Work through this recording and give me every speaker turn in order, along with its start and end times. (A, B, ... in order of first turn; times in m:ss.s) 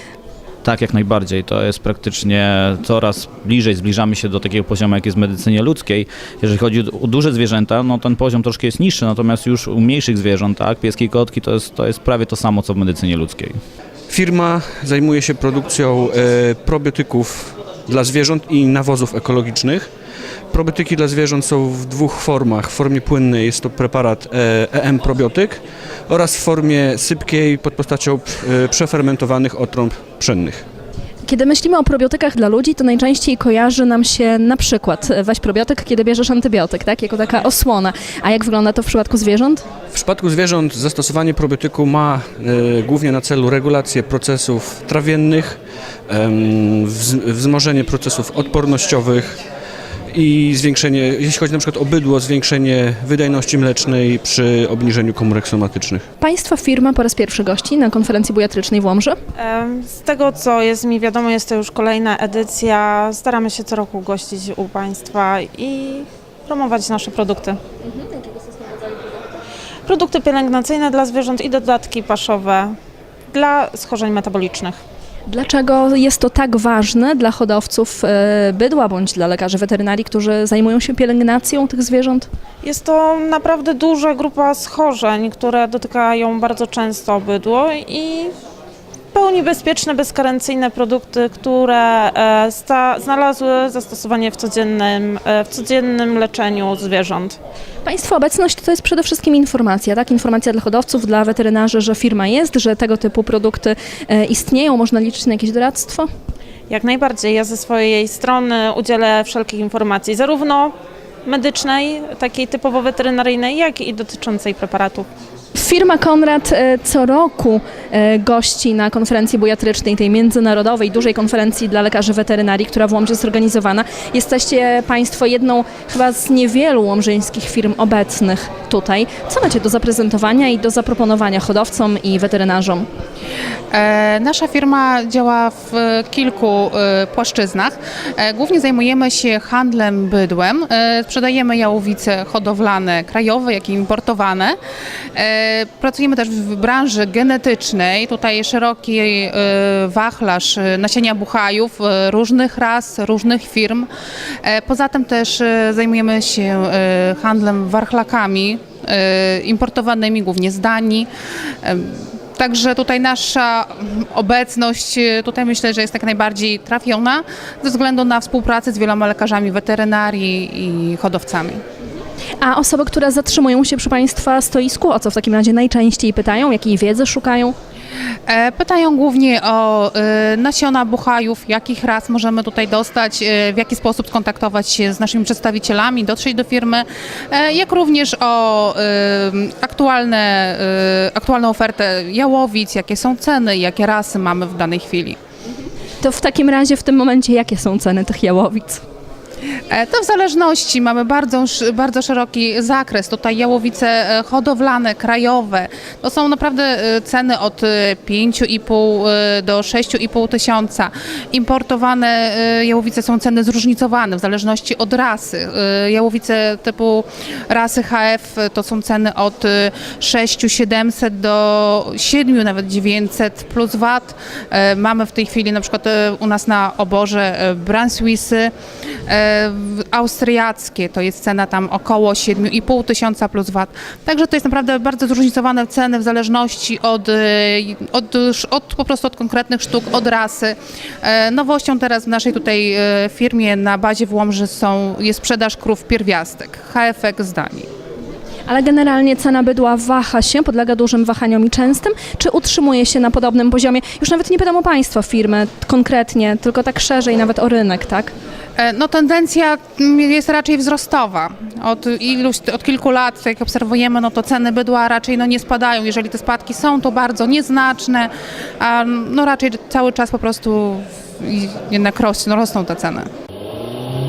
0:00.6-0:13.6 A
0:14.1-0:19.9 B
0:20.5-0:30.6 B
0:31.2-0:39.6 C
0:39.9-0:49.4 B
0:50.1-0:56.0 B
0:56.2-0:59.2 C
0:59.4-1:07.6 D
1:09.8-1:12.8 D
1:13.3-1:14.8 D
1:15.3-1:22.3 C
1:22.6-1:28.3 D
1:29.1-1:37.4 D
1:37.8-1:46.1 C
1:46.7-1:55.1 D
1:55.5-2:12.9 C
2:13.7-2:24.6 E
2:25.2-2:33.9 E
2:34.4-2:41.1 E
2:41.6-2:51.6 E
2:52.4-2:57.5 C
2:58.3-3:15.2 E
3:16.0-3:18.8 C
3:19.7-3:48.5 E
3:49.1-4:07.7 E
4:08.5-4:18.1 C
4:18.6-4:33.1 E